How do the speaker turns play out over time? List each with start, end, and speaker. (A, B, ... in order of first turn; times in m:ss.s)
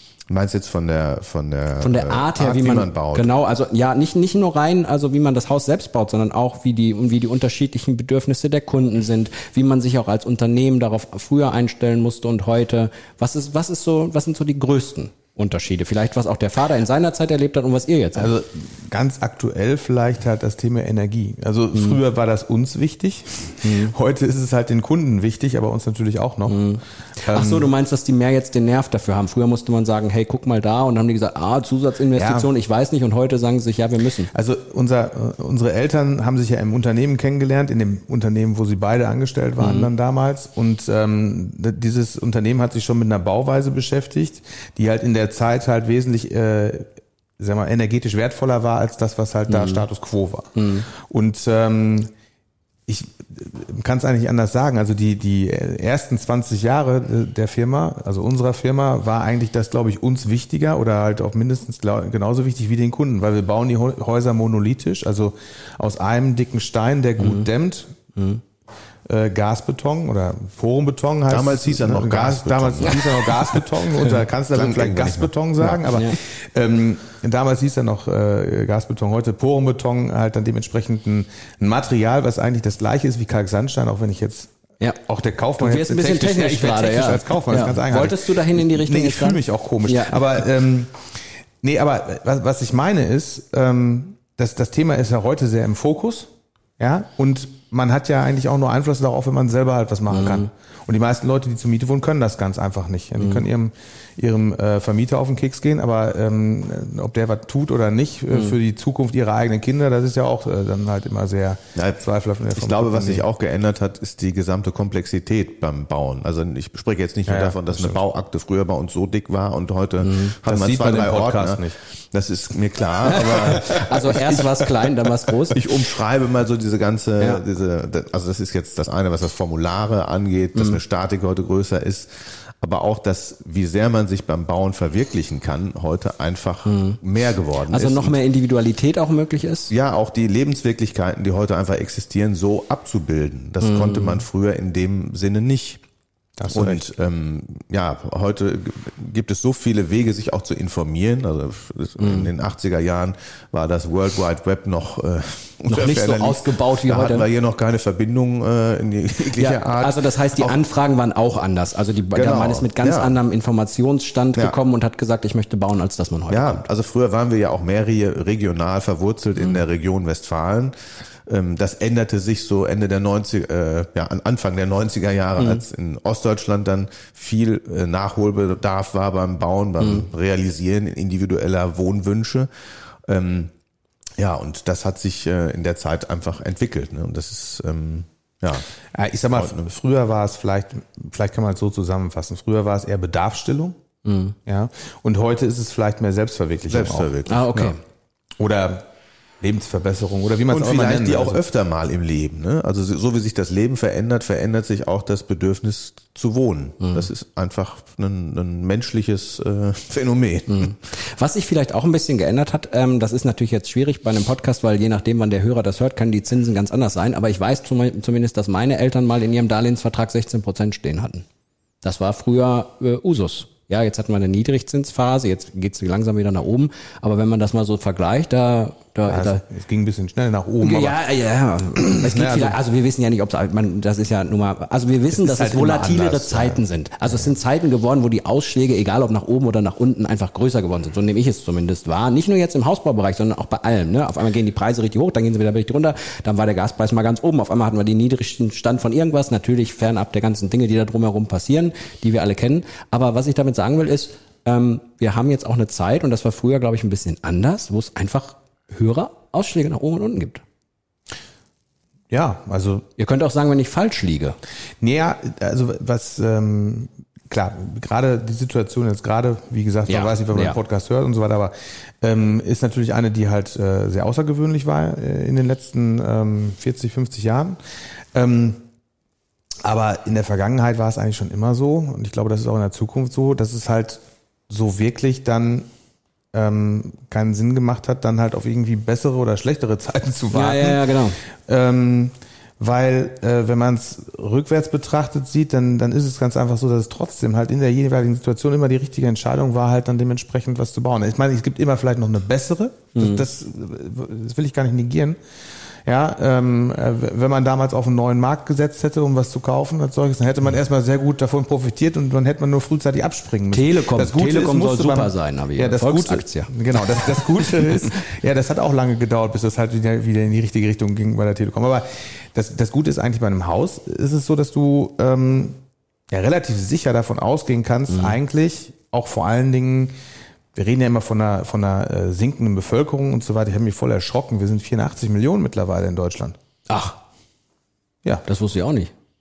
0:00.3-0:03.3 A
0:01.8-0:18.3 B
0:18.1-0:26.6 C
0:21.7-0:22.0 B
0:23.6-0:23.9 B
0:26.5-0:34.3 B
0:27.2-0:27.7 C
0:32.1-0:32.5 C
0:34.3-0:46.8 C
0:39.6-0:39.9 B
0:47.4-0:52.1 C
0:49.5-0:49.8 B
0:50.6-0:50.9 B
0:52.9-1:07.9 C
1:07.2-1:07.5 B
1:08.1-1:08.4 B
1:09.0-1:24.5 C
1:11.3-1:13.2 A
1:14.5-1:15.8 A
1:15.9-1:16.2 B
1:25.0-1:53.2 C
1:25.6-1:30.4 B
1:40.1-1:40.5 B
1:43.2-1:43.4 B
1:48.3-1:48.6 B
1:51.7-1:52.0 A
1:52.6-2:04.5 A
1:57.3-1:58.0 C
2:00.0-2:00.4 B
2:00.4-2:01.8 C
2:03.0-2:05.8 B
2:05.5-2:18.2 A
2:07.2-2:07.4 B
2:10.5-2:10.8 B
2:16.6-2:17.0 B
2:17.7-2:19.7 B
2:19.7-2:25.8 A
2:23.6-2:24.2 B
2:26.4-2:26.8 C
2:26.5-2:40.6 A
2:32.0-2:32.3 B
2:35.7-2:37.3 B
2:39.3-2:46.7 B
2:42.1-2:43.2 A
2:46.3-2:50.7 A
2:51.3-3:02.5 A
2:55.4-2:55.6 B
2:59.8-3:00.1 B
3:03.1-3:03.5 A
3:04.2-3:08.7 A
3:08.9-3:13.7 C
3:09.3-3:09.7 A
3:14.0-3:14.4 B
3:14.4-3:17.1 C
3:16.7-3:17.8 A
3:17.2-3:17.8 B
3:18.4-3:18.8 C
3:19.4-3:21.4 C
3:20.5-3:30.7 A
3:26.8-3:27.1 B
3:30.5-3:41.2 B
3:41.8-3:49.4 B
3:49.0-3:51.0 C
3:50.6-4:20.4 B
3:51.8-3:52.6 C
3:55.2-3:57.2 C
4:22.1-4:22.8 C
4:23.0-4:24.4 B
4:24.8-4:37.6 C
4:29.9-4:30.6 B
4:38.1-4:38.6 C
4:39.6-4:45.7 C
4:46.3-4:50.8 C
4:50.3-4:51.2 B
4:51.5-5:05.2 C
5:02.9-5:03.2 B
5:05.8-5:25.6 C
5:13.5-5:17.2 B
5:26.1-5:29.9 C
5:27.9-5:28.2 B
5:30.5-5:36.4 C
5:36.7-5:37.0 B
5:38.2-5:38.9 B